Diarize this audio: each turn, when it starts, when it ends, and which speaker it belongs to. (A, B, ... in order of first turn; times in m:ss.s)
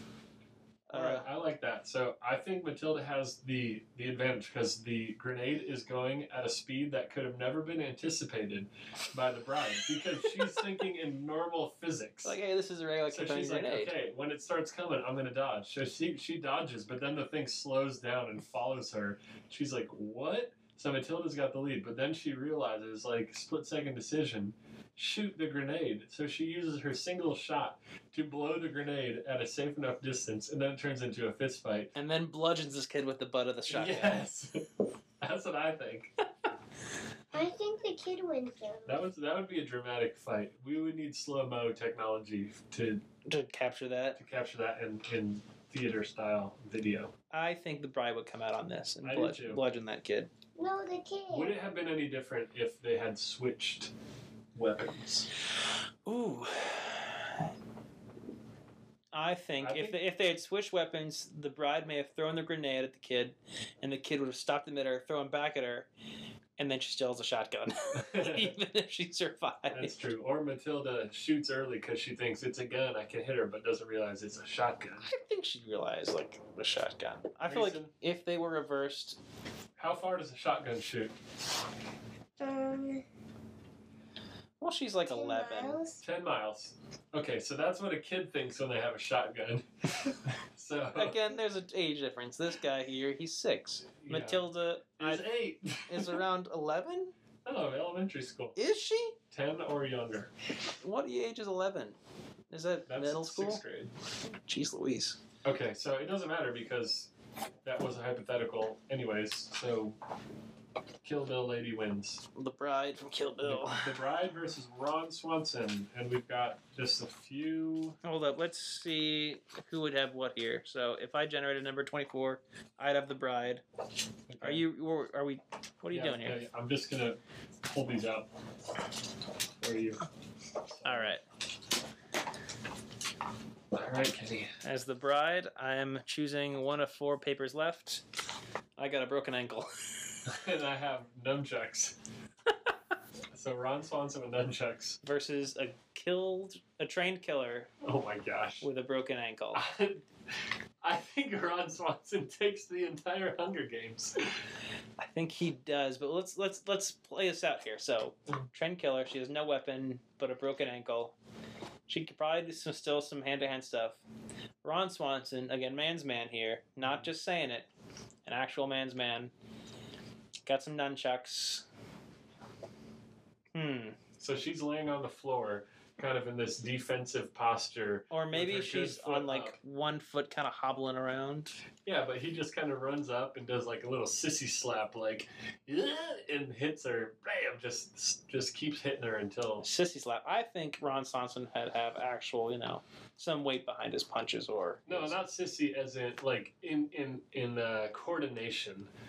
0:00.9-0:01.3 A
0:00.9-0:12.4 B
0:12.2-0:13.9 A
0:13.1-0:31.9 B
0:32.0-0:34.2 A
0:33.7-0:34.7 B
0:35.2-0:36.1 B
0:37.3-0:39.0 C
0:38.9-0:43.0 B
0:43.3-0:44.2 A
0:44.2-0:47.1 B
0:47.3-0:50.3 A
0:49.0-0:49.6 B
0:50.6-0:51.5 C
0:51.3-0:53.9 B
0:54.6-0:55.3 B
0:56.1-0:57.4 A
0:59.1-1:05.9 A
0:59.6-1:00.0 B
1:06.6-1:09.9 A
1:07.9-1:08.5 B
1:09.7-1:15.1 B
1:15.1-1:19.2 A
1:17.5-1:17.9 B
1:19.8-1:21.2 B
1:22.4-1:23.0 C
1:24.6-1:25.8 A
1:25.1-1:26.0 C
1:26.0-1:31.2 B
1:31.0-1:35.3 A
1:34.0-1:34.5 B
1:35.0-1:36.2 B
1:35.9-1:37.1 A
1:37.4-1:38.6 B
1:38.6-1:39.2 A
1:39.3-1:40.3 B
1:40.8-1:42.0 A
1:42.5-1:43.6 A
1:42.9-1:43.9 B
1:44.4-1:45.2 A
1:45.4-1:47.1 B
1:47.6-1:50.0 B
1:51.0-1:52.2 B
1:52.4-1:54.0 A
1:53.4-1:58.0 B
1:58.0-2:03.6 A
2:04.3-2:04.6 B
2:04.4-2:06.4 A
2:05.9-2:08.3 B
2:09.6-2:10.0 B
2:10.7-2:11.1 B
2:10.8-2:11.2 A
2:13.7-2:14.6 B
2:14.6-2:18.0 A
2:18.8-2:19.7 A
2:20.3-2:22.0 B
2:23.3-2:25.0 B
2:25.0-2:27.7 A
2:27.8-2:28.7 B
2:28.6-2:29.6 A
2:29.5-2:30.0 B
2:30.8-2:34.2 B
2:35.0-2:41.2 A
2:41.9-2:44.0 A
2:44.6-2:47.7 A
2:48.2-2:49.3 A
2:50.4-2:51.7 A
2:53.6-2:54.0 A
2:54.2-2:59.6 B
2:58.1-3:01.6 A
3:01.8-3:09.6 B
3:09.6-3:15.1 A
3:14.9-3:18.9 B